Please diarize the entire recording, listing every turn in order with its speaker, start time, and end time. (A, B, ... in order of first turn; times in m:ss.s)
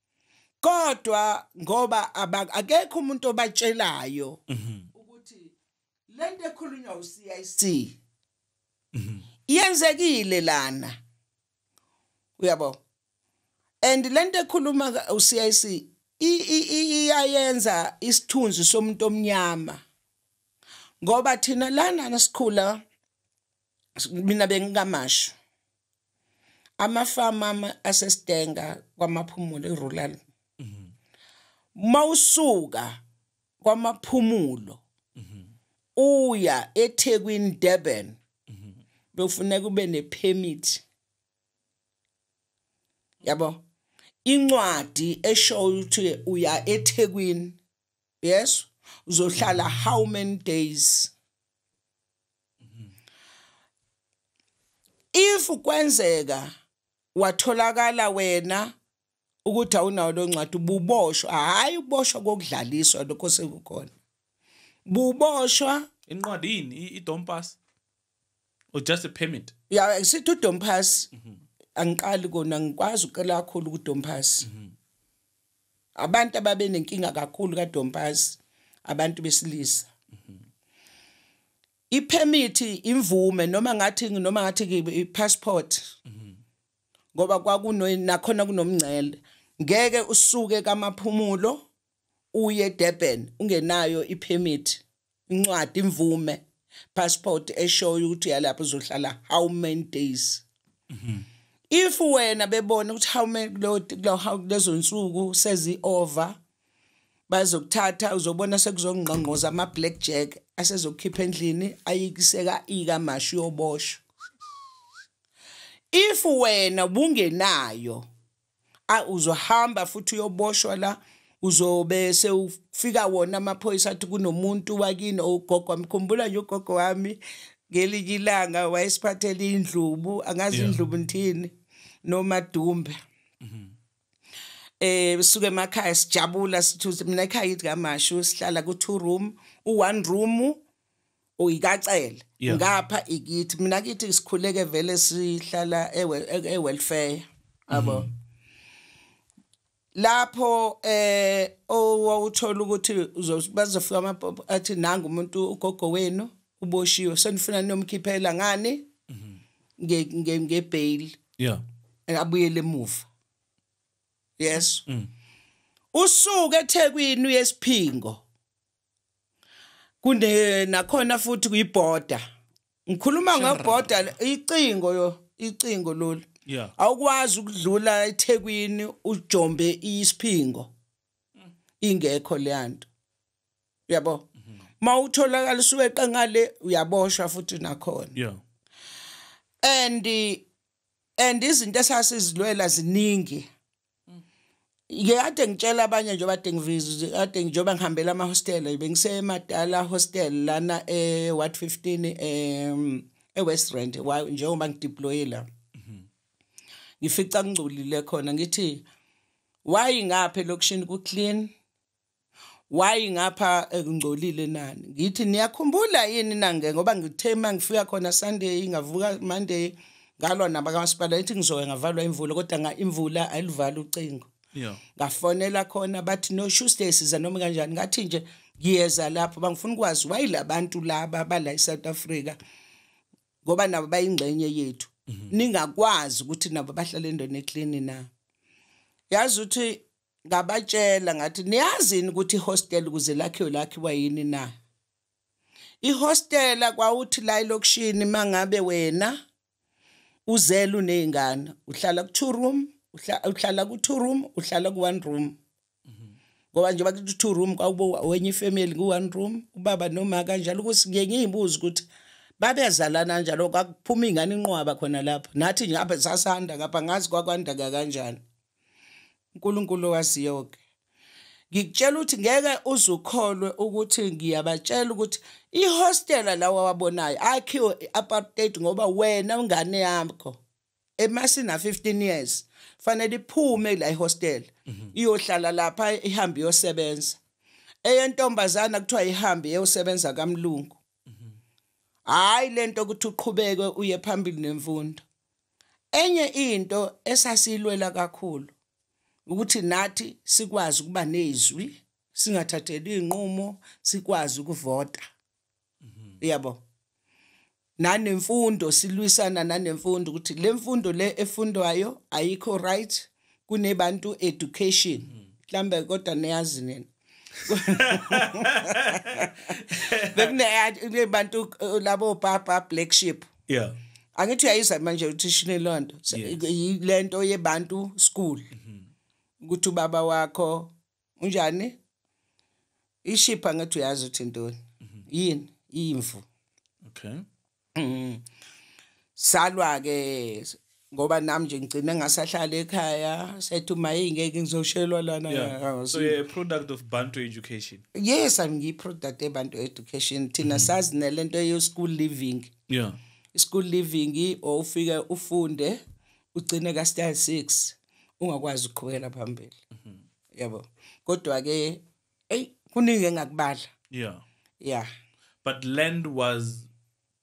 0:00.6-0:04.4 A
0:04.5-0:04.9 B
0:05.0-0:05.5 A
0:06.1-0:08.0 A
0:09.0-0:09.2 B
0:09.5-0:11.0 A
0:12.4-0:12.8 A
0:13.8-0:19.8 A
0:21.0-0:22.8 A
0:24.0-0:25.3 A
0:26.8-0:30.2 A
0:30.6-0:30.9 B
0:31.8-0:33.0 A
0:33.6-0:34.8 A
0:35.2-0:35.5 B
0:36.0-0:38.2 A
0:39.1-0:40.8 A
0:43.2-0:43.6 A
0:44.3-0:47.6 A
0:48.2-0:51.1 A
0:55.2-0:56.5 A
0:57.2-0:58.7 A
0:59.4-1:03.9 A
1:04.9-1:05.9 A
1:06.1-1:07.6 B
1:08.7-1:09.5 B
1:09.7-1:11.1 A
1:11.8-1:14.5 A
1:16.0-1:19.9 A
1:21.9-1:26.0 A
1:27.2-1:31.6 A
1:32.3-1:36.4 A
1:37.0-1:40.4 A
1:40.9-1:41.3 B
1:41.7-1:46.4 A
1:47.3-1:54.0 A
1:55.9-1:58.1 A
1:58.9-2:07.2 A
2:07.7-2:11.5 A
2:10.5-2:10.8 B
2:12.1-2:13.0 A
2:13.4-2:13.7 B
2:14.8-2:20.6 A
2:21.4-2:28.1 A
2:22.4-2:22.7 B
2:27.7-2:28.1 B
2:30.0-2:38.9 A
2:39.1-2:39.4 B
2:39.8-2:41.2 A
2:41.4-2:41.6 B
2:42.1-2:43.1 A
2:44.4-2:44.8 A
2:45.9-2:48.2 A
2:50.0-2:52.2 A
2:52.9-2:56.3 A
2:53.3-2:54.1 B
2:56.5-2:56.7 B
2:56.8-3:00.7 A
3:01.8-3:02.9 A
3:03.9-3:04.3 A
3:04.8-3:08.2 A
3:08.2-3:08.4 B
3:09.6-3:10.5 A
3:11.2-3:13.5 A
3:14.9-3:25.5 A
3:27.0-3:28.8 A
3:29.6-3:31.5 A
3:32.7-3:44.3 A
3:44.5-3:44.8 B
3:45.0-3:52.4 A
3:53.4-3:58.1 A
3:59.1-4:04.5 A
4:05.8-4:09.2 A
4:10.3-4:15.4 A
4:16.5-4:21.9 A
4:22.4-4:28.2 A
4:29.4-4:30.6 A
4:31.5-4:40.4 A
4:41.0-4:47.2 A
4:47.8-4:50.8 A
4:52.1-4:55.0 A
4:55.9-4:58.5 A
4:59.3-5:05.0 A
5:06.2-5:06.6 A
5:07.8-5:16.9 A
5:17.5-5:23.3 A
5:17.5-5:20.3 B
5:23.5-5:23.8 B
5:24.2-5:28.5 A
5:26.1-5:26.4 B
5:29.4-5:31.8 A
5:33.0-5:36.2 A
5:36.8-5:37.2 B
5:37.8-5:38.2 A
5:39.2-5:46.2 A
5:45.3-5:47.9 B
5:48.0-5:52.5 A
5:50.4-5:50.7 B
5:52.7-5:53.0 B
5:53.3-5:55.8 A
5:56.4-5:59.6 A
6:00.3-6:03.7 A
6:03.9-6:04.2 B
6:04.6-6:04.9 A
6:05.4-6:06.7 B